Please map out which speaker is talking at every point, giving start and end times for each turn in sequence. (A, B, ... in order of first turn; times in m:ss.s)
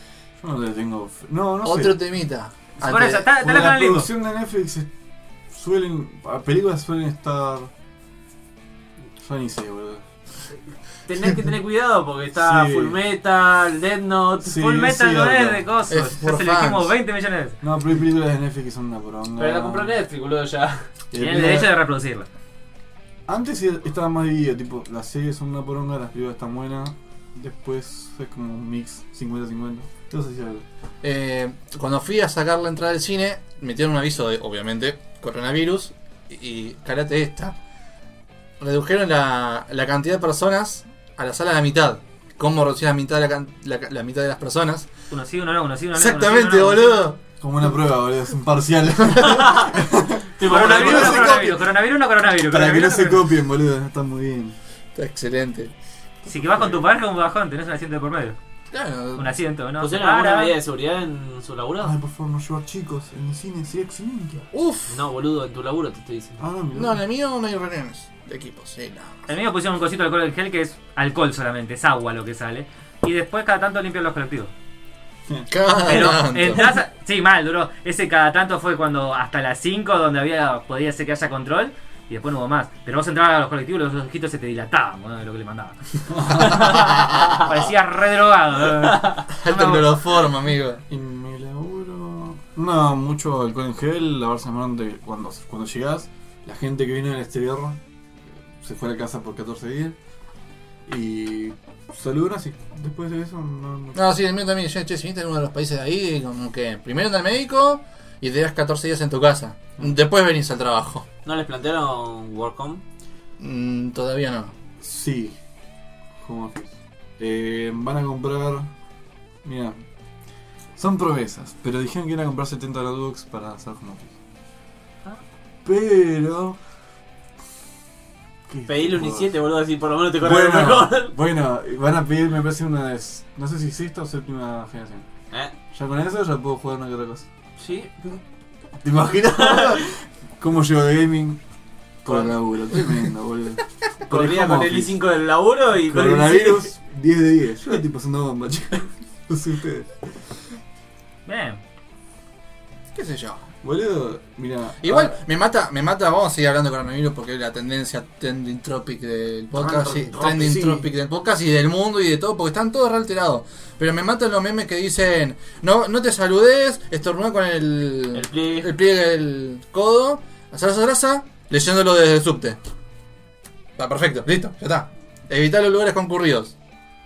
0:00.4-0:02.0 A
0:01.6-0:03.3 B
0:02.8-0:04.1 C
0:03.4-0:04.9 A
0:05.5-0:07.7 A
0:09.2-0:10.0 A
0:11.1-0:14.6 D
0:12.3-0:13.0 A
0:14.4-0:15.7 A
0:14.5-0:17.6 C
0:15.9-0:16.9 B
0:17.6-0:19.9 A
0:19.4-0:20.9 D
0:21.1-0:21.7 A
0:21.2-0:22.3 C
0:23.3-0:30.6 A
0:31.0-0:37.6 B
0:38.6-0:44.9 B
0:45.1-0:47.1 C
0:45.9-0:47.2 B
0:47.4-0:51.6 A
0:49.2-0:49.4 B
0:49.2-0:49.7 D
0:50.4-0:51.4 D
0:50.4-0:53.2 C
0:52.4-0:54.6 A
0:55.0-0:55.7 B
0:56.3-0:58.4 C
0:58.7-0:59.3 B
0:59.2-1:00.6 C
0:59.8-1:01.9 D
1:01.8-1:04.5 A
1:04.5-1:05.0 B
1:04.9-1:06.4 D
1:06.4-1:07.0 A
1:06.8-1:09.1 B
1:09.3-1:14.5 C
1:15.5-1:16.6 B
1:15.8-1:30.1 C
1:26.1-1:26.6 A
1:26.5-1:27.4 B
1:28.9-1:29.2 D
1:29.3-1:30.8 B
1:30.9-1:37.8 A
1:38.6-1:40.0 A
1:40.9-1:44.0 A
1:44.0-1:51.0 B
1:51.2-1:52.8 D
1:53.4-1:54.5 B
1:54.8-1:55.4 A
1:56.2-1:58.7 A
1:59.4-1:59.8 A
2:00.8-2:04.1 A
2:05.6-2:06.6 A
2:08.5-2:09.3 A
2:08.7-2:11.1 D
2:10.2-2:15.1 A
2:15.7-2:17.3 A
2:17.6-2:18.2 D
2:18.8-2:21.4 A
2:19.3-2:19.8 D
2:22.0-2:25.0 A
2:24.1-2:26.7 D
2:25.8-2:29.9 A
2:31.3-2:31.6 C
2:32.9-2:33.5 B
2:33.6-2:35.2 A
2:34.8-2:52.6 B
2:39.6-2:40.9 D
2:40.3-2:40.8 A
2:48.1-2:48.7 D
2:53.8-2:56.5 B